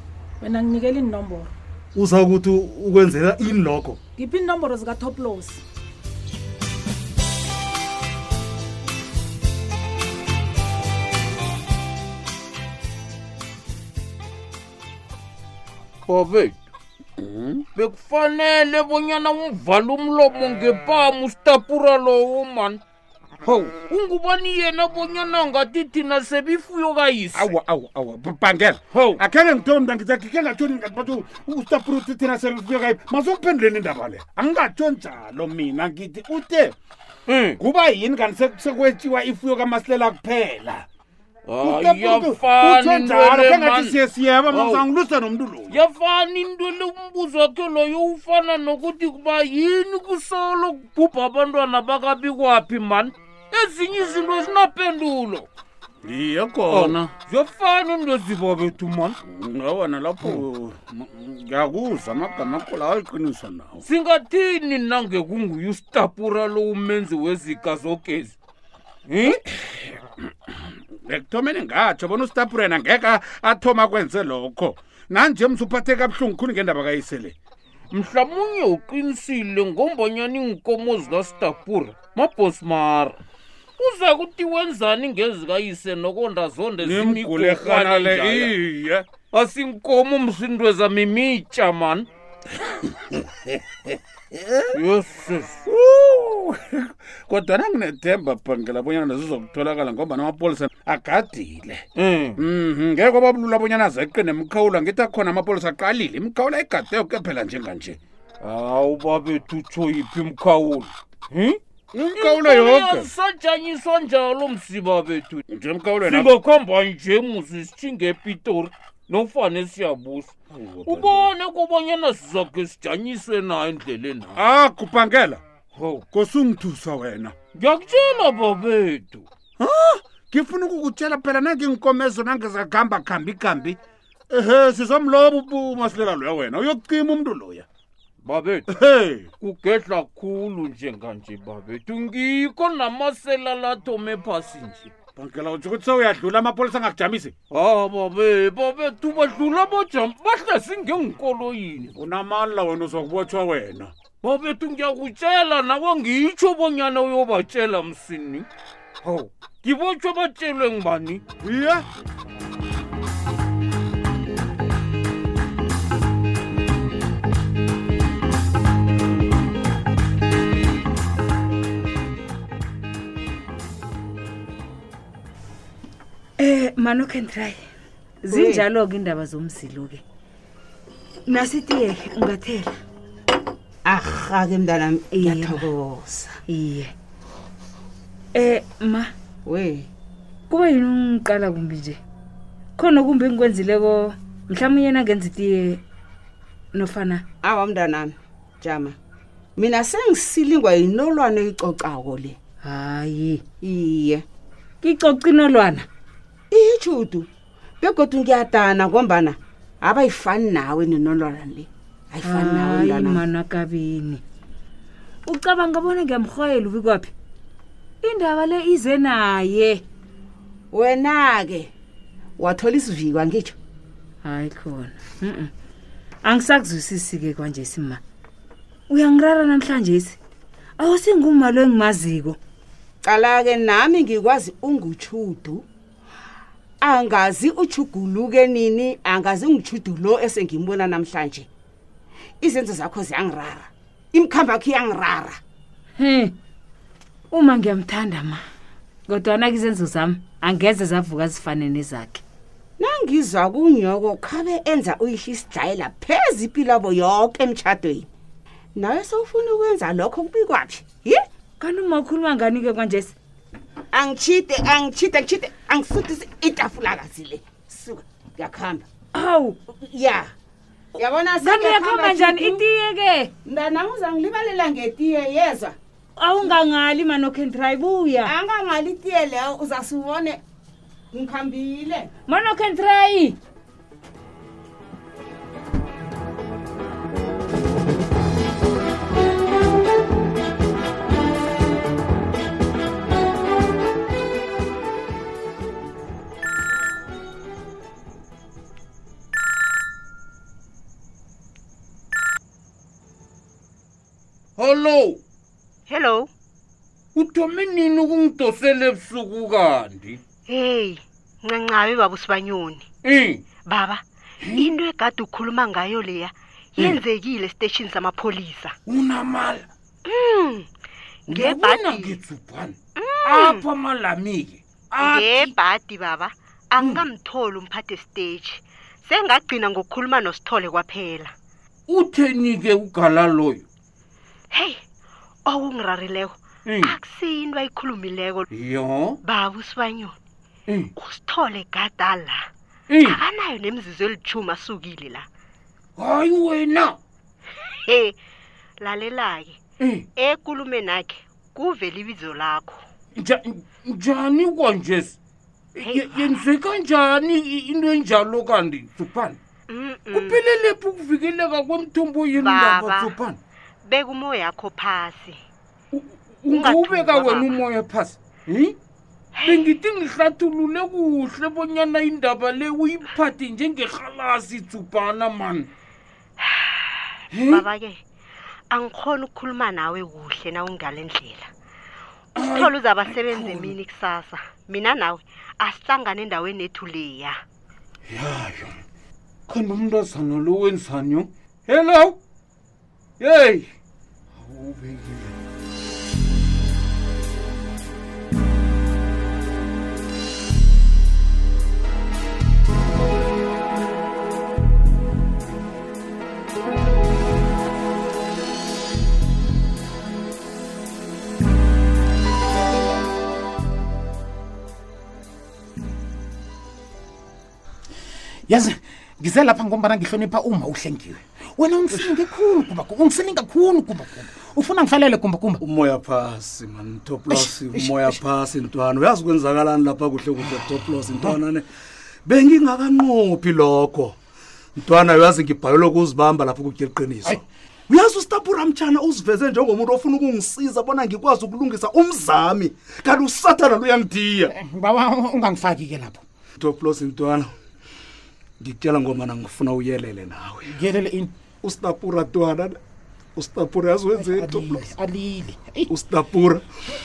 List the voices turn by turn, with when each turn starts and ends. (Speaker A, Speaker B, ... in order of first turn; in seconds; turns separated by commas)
Speaker A: 0.4-1.5, Speaker B: 1.9-4.0, Speaker A: 4.2-5.6, Speaker C: 16.1-16.6, Speaker D: 17.2-17.6, Speaker C: 17.8-22.8, Speaker C: 23.4-27.5, Speaker D: 27.4-36.8, Speaker C: 28.9-29.2, Speaker C: 37.3-37.6, Speaker D: 37.6-40.9, Speaker C: 41.5-44.0, Speaker D: 41.6-45.8, Speaker C: 44.5-44.9, Speaker C: 45.7-55.5, Speaker D: 56.0-57.0, Speaker C: 56.7-59.2, Speaker D: 59.2-63.8, Speaker C: 63.8-68.4, Speaker C: 69.1-69.4, Speaker D: 71.1-77.3, Speaker C: 77.9-83.2, Speaker C: 83.8-88.6, Speaker D: 86.8-89.1, Speaker C: 89.3-92.1, Speaker D: 94.3-94.8, Speaker C: 94.7-95.6, Speaker D: 95.7-101.8, Speaker C: 102.0-102.4, Speaker D: 102.4-108.0, Speaker C: 108.4-111.6, Speaker D: 111.9-113.1, Speaker C: 112.1-115.4, Speaker D: 115.5-116.3, Speaker C: 116.1-120.3, Speaker D: 120.5-121.3, Speaker C: 120.8-124.4, Speaker D: 124.4-125.4, Speaker C: 125.8-126.1, Speaker D: 126.1-127.3, Speaker C: 127.5-129.3, Speaker D: 129.6-133.8, Speaker D: 134.3-137.7, Speaker C: 138.2-138.7, Speaker D: 138.7-139.3, Speaker C: 139.4-144.9, Speaker D: 145.2-147.3, Speaker C: 147.5-151.9, Speaker D: 152.0-153.9, Speaker C: 154.2-158.5, Speaker C: 159.0-161.2, Speaker D: 161.4-161.9, Speaker E: 176.4-177.6, Speaker E: 178.2-180.0, Speaker F: 178.3-178.6, Speaker E: 181.3-182.7, Speaker F: 183.9-186.3, Speaker E: 185.1-185.7, Speaker E: 186.5-186.9, Speaker E: 188.3-189.1, Speaker F: 189.4-189.9, Speaker E: 190.5-192.0, Speaker E: 192.8-195.8, Speaker E: 196.7-197.2, Speaker F: 197.4-198.9, Speaker F: 199.6-202.3, Speaker E: 202.6-203.4, Speaker F: 203.6-204.2, Speaker E: 204.8-205.9, Speaker F: 206.5-207.3, Speaker F: 207.8-213.2, Speaker E: 212.2-214.2, Speaker E: 215.3-217.1, Speaker E: 218.0-219.8, Speaker F: 220.7-221.7, Speaker F: 222.4-223.5, Speaker E: 224.2-225.5, Speaker E: 226.2-228.0, Speaker E: 228.9-230.2, Speaker E: 230.8-232.4, Speaker F: 233.1-235.6, Speaker F: 236.8-241.5, Speaker F: 242.4-245.3, Speaker E: 246.0-246.3, Speaker E: 247.3-248.4, Speaker E: 249.1-252.2, Speaker F: 252.8-258.1, Speaker F: 258.8-261.2, Speaker E: 261.6-263.1, Speaker F: 263.9-268.9, Speaker E: 269.1-269.6, Speaker F: 269.7-270.3, Speaker F: 271.0-272.6, Speaker E: 271.4-273.3, Speaker F: 273.4-275.8, Speaker E: 276.2-278.3, Speaker F: 278.2-280.4, Speaker F: 281.1-282.1, Speaker E: 282.3-283.4, Speaker C: 304.6-305.2, Speaker G: 305.9-306.3, Speaker C: 307.1-310.2, Speaker G: 310.5-312.9, Speaker C: 313.0-313.4, Speaker G: 313.6-318.8, Speaker C: 318.9-319.7, Speaker G: 320.1-320.7, Speaker G: 321.3-322.1, Speaker C: 321.3-325.5, Speaker G: 323.0-323.6, Speaker G: 325.0-331.3, Speaker C: 331.9-333.6, Speaker G: 334.5-334.8, Speaker G: 335.5-338.5, Speaker C: 336.6-337.0, Speaker C: 338.5-339.2, Speaker G: 339.2-340.1, Speaker G: 341.0-342.5, Speaker C: 342.9-343.2, Speaker G: 343.0-345.2, Speaker C: 346.0-347.0, Speaker G: 347.9-348.1, Speaker G: 348.8-349.6, Speaker C: 349.8-350.1, Speaker G: 350.1-352.8, Speaker C: 353.1-355.2, Speaker C: 355.8-359.4, Speaker G: 355.8-356.4, Speaker G: 359.7-360.4, Speaker C: 360.1-363.4, Speaker G: 362.3-363.1, Speaker G: 363.9-365.4, Speaker C: 365.9-368.8, Speaker G: 366.5-367.5, Speaker G: 369.4-369.7, Speaker C: 369.4-375.7, Speaker C: 377.3-377.6, Speaker G: 377.4-378.0, Speaker G: 378.7-381.5, Speaker C: 382.4-383.8, Speaker G: 382.4-387.4, Speaker C: 388.1-388.8, Speaker C: 389.5-392.2, Speaker C: 393.2-393.7, Speaker C: 394.4-395.4, Speaker H: 418.5-425.6, Speaker B: 425.6-431.6, Speaker H: 427.3-428.1, Speaker B: 432.2-434.2, Speaker B: 434.8-444.5, Speaker H: 444.5-446.2, Speaker B: 446.6-447.5, Speaker B: 448.6-450.8, Speaker H: 450.6-451.3, Speaker B: 451.6-452.8, Speaker B: 453.4-454.9, Speaker H: 454.1-455.9, Speaker B: 455.9-456.6